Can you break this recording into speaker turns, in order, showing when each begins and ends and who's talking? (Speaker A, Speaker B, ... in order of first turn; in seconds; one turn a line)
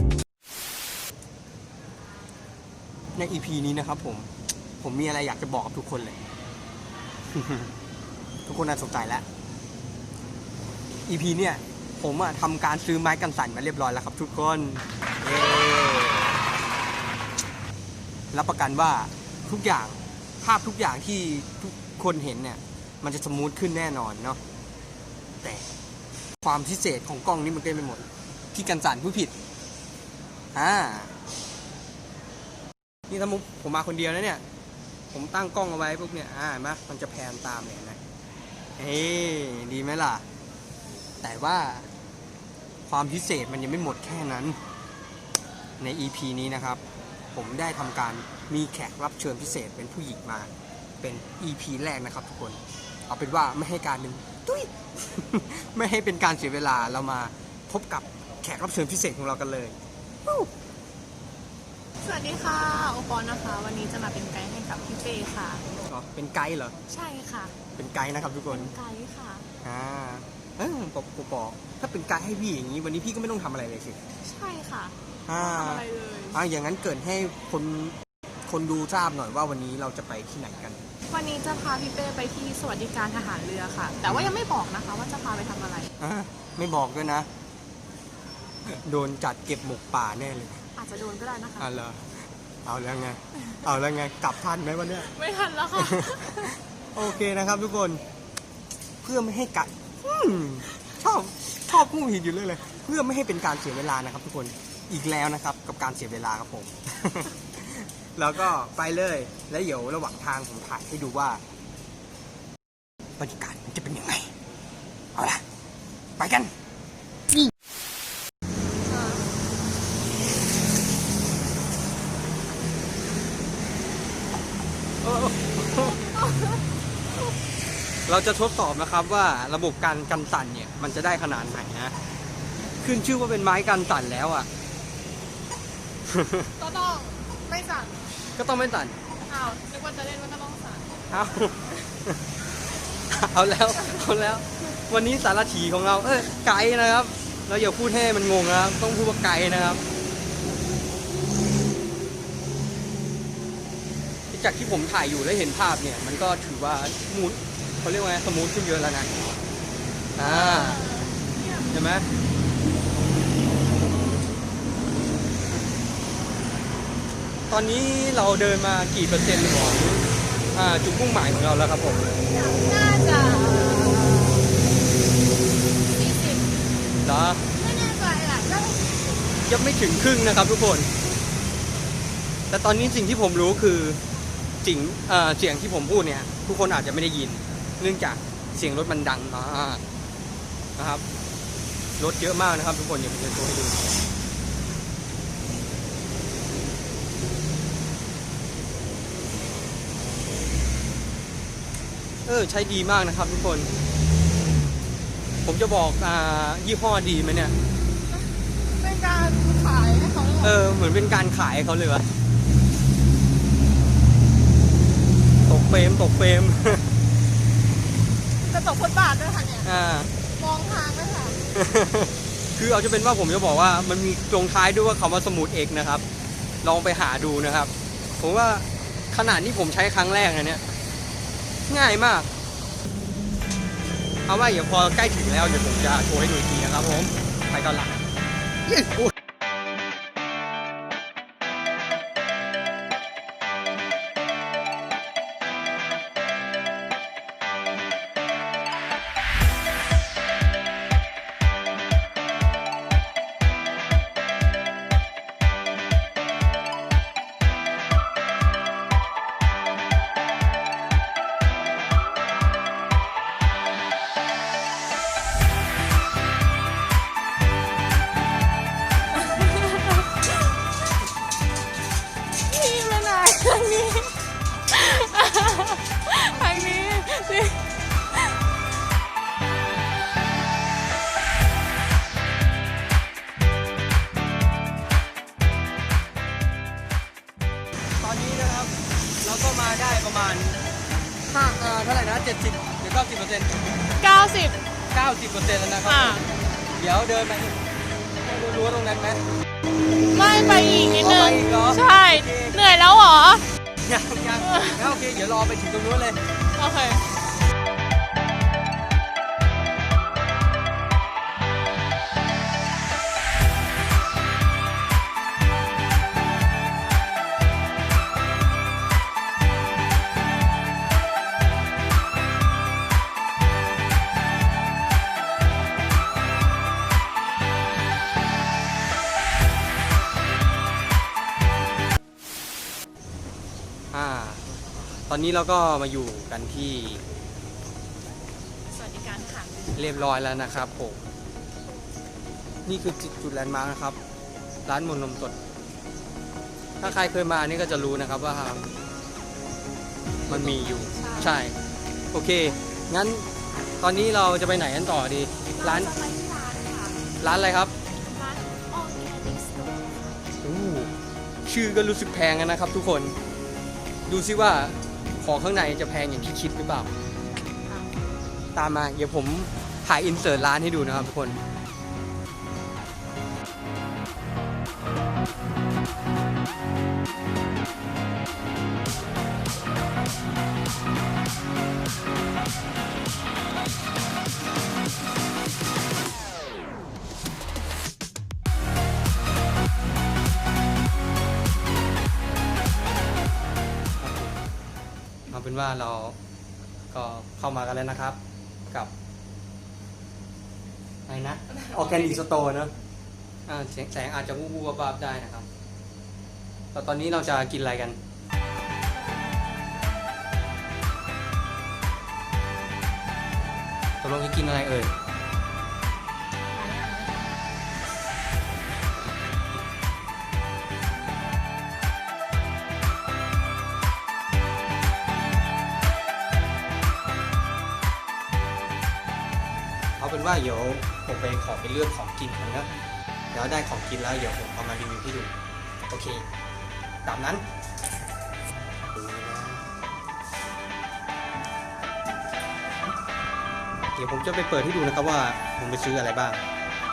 Speaker A: 3.1-4.3
Speaker A: 4.8-6.2
Speaker A: 7.3-7.7
Speaker A: 8.4-9.2
Speaker A: 11.1-16.4
Speaker A: 18.3-24.4
Speaker A: 25.4-25.7
Speaker A: 26.4-29.3
Speaker A: 30.5-31.1
Speaker A: 33.1-34.4
Speaker A: 35.1-38.0
Speaker A: 38.8-40.2
Speaker A: 41.2-41.9
Speaker A: 42.9-44.6
Speaker A: 45.8-46.8
Speaker A: 47.3-60.5
Speaker B: 62.0-65.6
Speaker A: 65.9-66.8
Speaker B: 66.9-67.5
Speaker A: 67.7-68.8
Speaker B: 68.5-69.5
Speaker A: 69.6-74.0
Speaker B: 74.2-76.4
Speaker A: 75.3-78.0
Speaker A: 78.5-80.8
Speaker B: 81.1-85.9
Speaker A: 84.0-84.3
Speaker A: 86.0-87.3
Speaker A: 88.7-90.6
Speaker B: 90.7-91.7
Speaker A: 91.6-95.1
Speaker B: 95.0-96.6
Speaker A: 95.7-98.0
Speaker A: 99.0-111.4
Speaker A: 113.2-114.3
Speaker A: 115.1-115.4
Speaker A: 116.2-116.5
Speaker B: 118.9-119.2
Speaker A: 125.0-126.0
Speaker B: 125.9-126.6
Speaker A: 128.1-131.9
Speaker A: 132.8-134.5
Speaker A: 136.1-136.5
Speaker B: 136.6-138.0
Speaker A: 138.4-139.0
Speaker B: 139.3-140.9
Speaker A: 141.1-142.2
Speaker A: 143.1-149.8
Speaker A: 154.3-159.1
Speaker A: 160.2-160.8
Speaker B: 160.2-161.6
Speaker A: 161.7-162.1
Speaker A: 167.5-172.0
Speaker B: 172.2-174.6
Speaker B: 175.8-176.6
Speaker A: 177.0-177.4
Speaker B: 177.5-179.2
Speaker A: 179.4-180.9
Speaker A: 182.5-184.0
Speaker A: 184.6-189.8
Speaker A: 190.8-191.0
Speaker A: 192.0-194.0
Speaker A: 202.2-203.7
Speaker A: 205.4-207.5
Speaker B: 208.8-210.6
Speaker A: 210.4-212.0
Speaker A: 215.4-216.9
Speaker B: 218.4-219.7
Speaker A: 219.6-220.1
Speaker B: 220.4-221.4
Speaker A: 221.5-226.0
Speaker A: 226.6-230.6
Speaker A: 231.7-232.3
Speaker A: 234.3-238.0
Speaker A: 238.7-239.1
Speaker B: 269.3-270.0
Speaker B: 272.4-277.6
Speaker A: 288.0-290.6
Speaker A: 291.3-293.6
Speaker B: 294.0-294.6
Speaker A: 294.9-296.2
Speaker B: 295.9-296.2
Speaker A: 296.8-297.6
Speaker A: 298.2-299.2
Speaker B: 300.1-303.4
Speaker A: 301.0-302.6
Speaker A: 303.8-306.2
Speaker B: 304.4-304.8
Speaker B: 306.6-307.0
Speaker A: 333.9-334.4
Speaker A: 335.1-337.0
Speaker B: 338.7-340.3
Speaker A: 339.7-341.0
Speaker A: 342.6-344.0
Speaker A: 344.7-345.3
Speaker A: 346.8-348.6
Speaker B: 350.3-351.4
Speaker A: 350.3-351.6
Speaker A: 352.1-353.3
Speaker A: 353.8-355.9
Speaker B: 355.5-357.0
Speaker A: 357.2-357.7
Speaker B: 358.0-360.2
Speaker A: 360.4-360.9
Speaker A: 361.4-363.1
Speaker A: 364.1-366.9
Speaker B: 367.6-367.9
Speaker A: 368.5-371.4
Speaker A: 394.0-394.3
Speaker A: 395.3-396.1
Speaker A: 396.9-398.2
Speaker A: 401.1-402.7
Speaker B: 401.7-402.1
Speaker A: 403.5-405.5
Speaker A: 406.7-408.0
Speaker B: 408.9-409.8
Speaker A: 414.0-414.9
Speaker B: 416.5-417.3
Speaker A: 430.0-432.7
Speaker A: 433.3-435.3
Speaker A: 435.9-436.2
Speaker A: 437.0-437.4
Speaker A: 438.9-439.7
Speaker A: 443.9-446.4